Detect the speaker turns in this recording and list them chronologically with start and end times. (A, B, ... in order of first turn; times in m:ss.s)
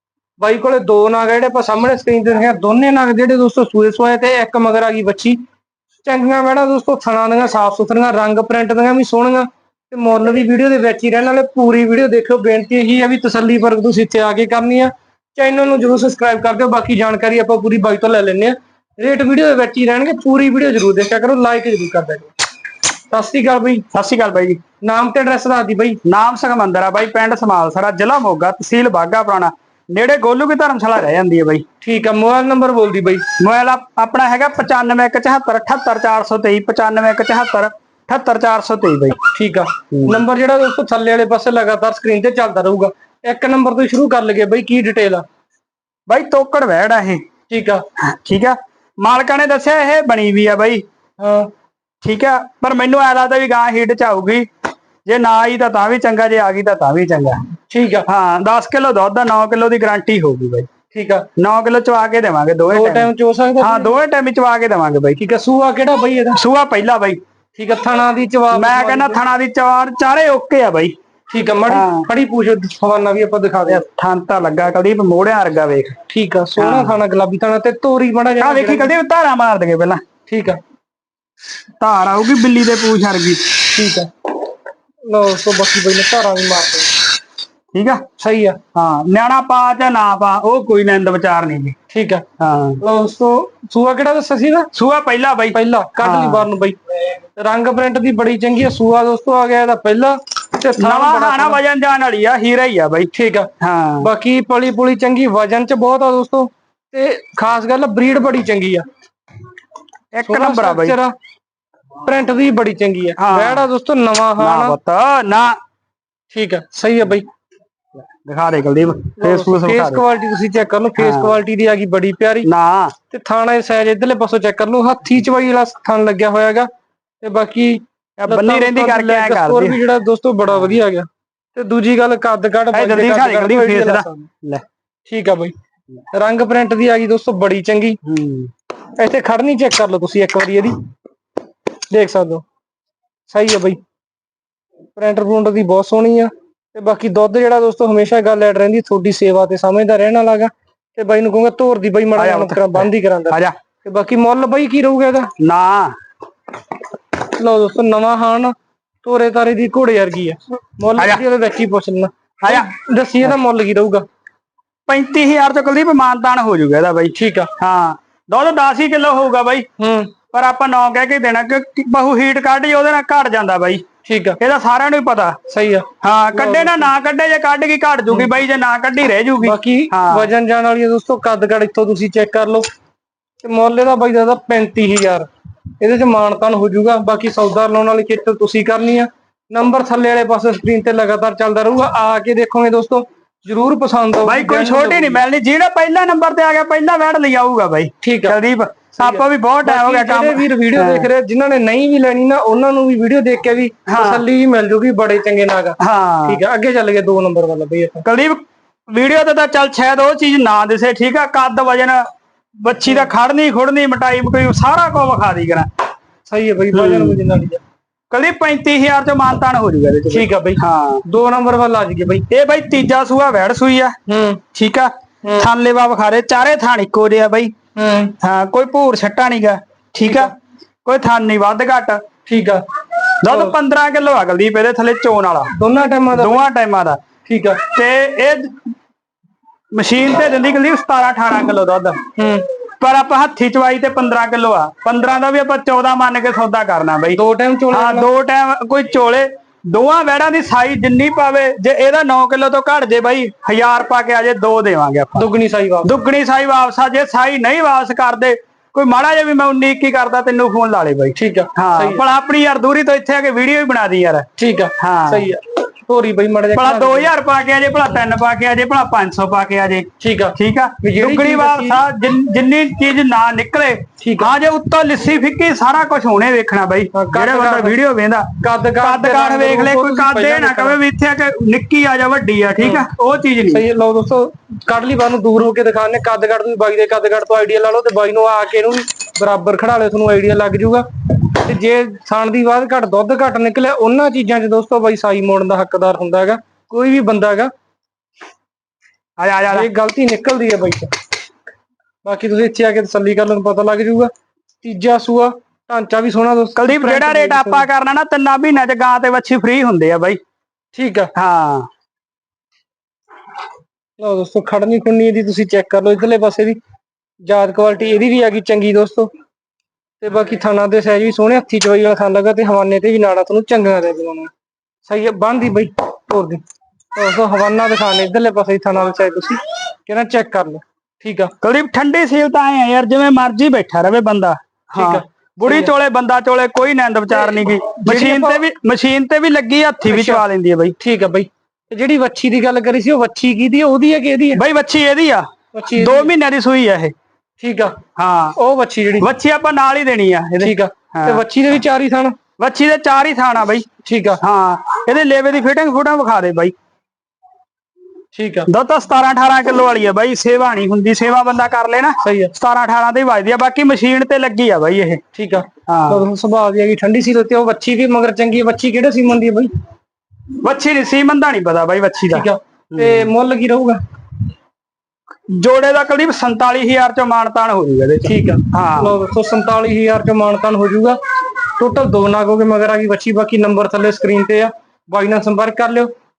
0:00.4-0:05.4 A
0:06.0-0:22.3 A
0:23.1-0:23.8 A
0:23.9-0:24.6 B
0:24.8-0:26.0 A
0:26.0-0:31.6 B
0:31.8-0:33.2 A
0:33.4-0:39.2 B
0:39.3-0:45.2 A
0:39.9-0:40.2 B
0:46.1-0:47.2 B
0:47.5-0:47.8 A
0:48.0-0:50.8 B
0:51.2-0:51.5 A
0:52.0-0:54.5 B
0:55.1-0:57.4 B
0:57.7-0:58.1 A
0:58.1-1:00.7 B
1:00.9-1:01.3 A
1:01.4-1:05.2 B
1:02.7-1:03.9 A
1:05.2-1:06.4 A
1:06.4-1:07.2 B
1:07.6-1:09.2 A
1:08.5-1:11.0 B
1:11.3-1:13.8 A
1:11.7-1:12.1 B
1:13.7-1:16.0 B
1:16.1-1:18.9 A
1:16.6-1:17.0 B
1:18.4-1:20.0 B
1:20.3-1:20.6 A
1:21.8-1:23.6 B
1:23.7-1:24.1 A
1:25.1-1:26.9 A
1:27.7-1:28.0 B
1:28.2-1:28.6 A
1:28.7-1:31.8 B
1:31.9-1:32.2 A
1:32.4-1:32.8 B
1:32.8-1:34.7 A
1:34.7-1:36.5 B
1:35.5-1:36.8 A
1:37.4-1:41.6 A
1:40.8-1:44.1 B
1:43.1-1:48.8 A
1:50.1-1:51.0 B
1:50.2-1:51.1 A
1:52.0-1:54.8 A
1:53.2-1:53.7 B
1:54.4-1:55.6 B
1:56.3-1:57.3 A
1:58.2-2:00.0 B
1:59.2-2:02.5 A
2:01.0-2:01.4 B
2:02.4-2:02.9 B
2:03.1-2:06.7 A
2:07.2-2:14.3 A
2:08.2-2:09.8 B
2:12.7-2:14.6 B
2:15.1-2:15.5 A
2:16.1-2:18.0 A
2:18.0-2:18.5 B
2:19.0-2:20.8 A
2:21.9-2:22.4 A
2:23.3-2:23.8 A
2:25.0-2:35.3 A
2:32.2-2:33.6 B
2:35.4-2:36.0 B
2:37.2-2:44.0 A
2:41.0-2:41.2 B
2:42.4-2:42.7 B
2:44.9-2:49.7 B
2:47.1-2:47.5 A
2:49.8-2:50.1 A
2:50.3-2:53.8 B
2:54.0-2:54.4 A
2:54.4-2:55.4 B
2:55.5-2:56.9 A
2:56.0-3:00.3 B
2:59.4-3:02.7 A
3:03.4-3:05.3 A
3:05.8-3:15.2 A
3:14.2-3:21.1 B
3:18.0-3:18.4 A
3:19.0-3:28.0 A
3:23.9-3:24.2 B
3:25.8-3:26.4 B
3:28.0-3:32.0 B
3:32.6-3:35.7 B
3:36.3-3:37.6 A
3:36.7-3:37.2 B
3:38.1-3:41.0 B
3:40.1-3:42.2 A
3:42.3-3:44.0 B
3:44.1-3:44.4 A
3:44.5-3:47.5 B
3:45.2-3:45.5 A
3:47.8-3:48.1 A
3:48.2-3:50.3 B
3:50.0-3:50.3 A
3:50.8-3:52.0 B
3:52.3-3:52.6 A
3:53.2-3:55.5 B
3:53.3-3:53.5 A
3:55.5-3:56.4 A
3:56.1-3:57.0 B
3:57.3-3:57.6 A
3:57.7-3:58.5 B
3:59.7-4:02.0 B
4:02.2-4:02.4 A
4:02.8-4:07.2 B
4:07.1-4:08.1 A
4:07.7-4:15.3 B
4:15.2-4:15.9 A
4:15.8-4:24.3 B
4:21.2-4:22.0 A
4:24.4-4:27.1 A
4:24.8-4:25.3 B
4:26.6-4:43.6 B
4:30.0-4:31.8 A
4:34.0-4:34.3 A
4:36.9-4:37.8 A
4:38.4-4:40.8 A
4:42.6-4:42.9 A
4:43.5-4:57.5 A
4:59.2-4:59.7 B
4:59.5-5:00.9 A
5:02.0-5:04.1 A
5:04.6-5:07.7 A
5:06.6-5:10.2 B
5:10.8-5:11.1 A
5:11.2-5:11.7 B
5:14.0-5:16.6 A
5:17.2-5:19.1 A
5:20.0-5:24.3 A
5:24.8-5:26.4 A
5:27.0-5:31.3 A
5:31.4-5:40.8 B
5:34.8-5:35.7 A
5:37.1-5:38.4 A
5:39.9-5:40.2 A
5:40.8-5:44.4 A
5:44.4-5:46.9 B
5:45.5-5:46.1 A
5:47.4-5:47.8 A
5:48.0-5:48.4 B
5:48.4-5:49.1 A
5:49.0-5:51.2 B
5:50.4-5:52.2 A
5:52.4-5:53.7 B
5:53.8-5:54.2 A
5:54.2-5:56.5 B
5:58.2-5:58.5 A
5:58.5-6:05.0 B
6:02.0-6:02.3 A
6:05.1-6:09.5 A
6:05.7-6:06.0 B
6:10.4-6:13.1 B
6:12.1-6:13.8 A
6:15.3-6:19.0 B
6:18.0-6:21.0 A
6:21.6-6:25.9 A